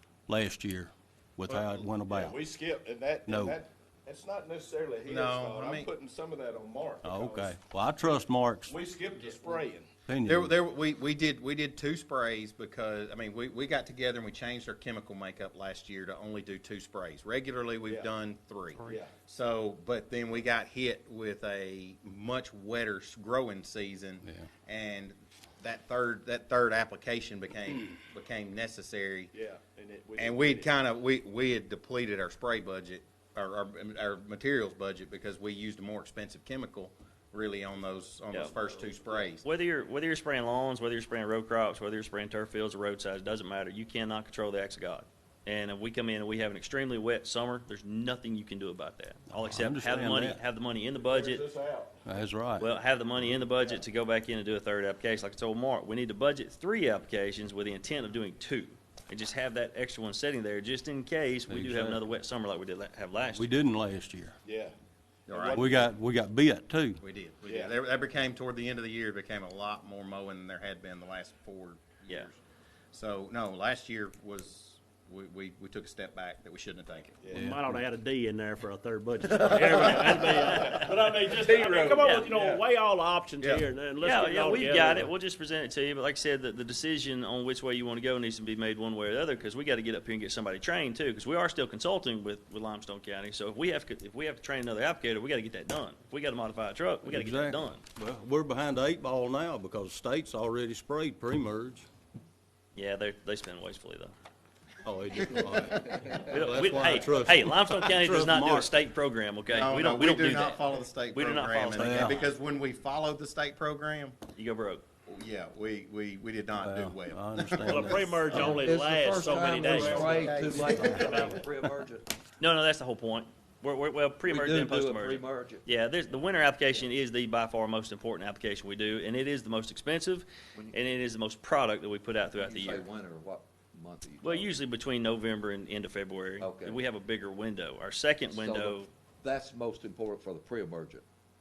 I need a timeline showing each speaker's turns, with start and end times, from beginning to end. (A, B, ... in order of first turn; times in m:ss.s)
0:00.3-0:02.4 A
0:02.1-0:07.6 B
0:03.3-0:03.6 A
0:05.1-0:05.9 C
0:07.0-0:08.8 A
0:08.1-0:09.9 B
0:10.1-0:10.5 A
0:10.2-0:29.3 C
0:18.8-0:19.1 B
0:29.3-0:30.7 B
0:30.2-0:39.4 C
0:38.6-0:39.3 B
0:39.4-0:51.5 D
0:49.3-0:50.4 A
0:51.0-0:52.0 B
0:52.0-0:52.7 A
0:52.6-1:03.6 D
0:53.5-0:53.8 B
1:01.5-1:02.1 A
1:03.3-1:04.4 A
1:04.4-1:04.8 B
1:05.3-1:05.8 C
1:05.3-1:05.9 B
1:05.5-1:07.0 A
1:07.0-1:12.4 C
1:07.5-1:07.7 B
1:12.9-1:17.2 C
1:17.2-1:17.5 B
1:17.3-1:17.8 A
1:17.4-1:25.1 E
1:19.8-1:22.6 B
1:19.8-1:21.0 D
1:22.0-1:22.3 D
1:23.4-1:23.7 B
1:24.0-1:37.8 D
1:37.0-1:41.9 A
1:42.8-1:44.1 D
1:44.8-1:48.8 A
1:45.3-1:46.2 C
1:46.3-1:52.2 D
1:49.5-1:54.2 C
1:51.8-1:52.3 A
1:54.4-1:54.8 D
1:55.1-1:58.6 C
1:56.6-1:58.7 A
1:57.7-2:01.3 E
1:58.4-2:02.2 F
1:59.2-2:01.4 C
1:59.9-2:01.4 A
2:02.4-2:12.9 D
2:04.3-2:05.6 F
2:10.6-2:10.8 F
2:12.3-2:14.5 F
2:14.2-2:18.9 D
2:16.4-2:16.8 F
2:18.3-2:21.1 F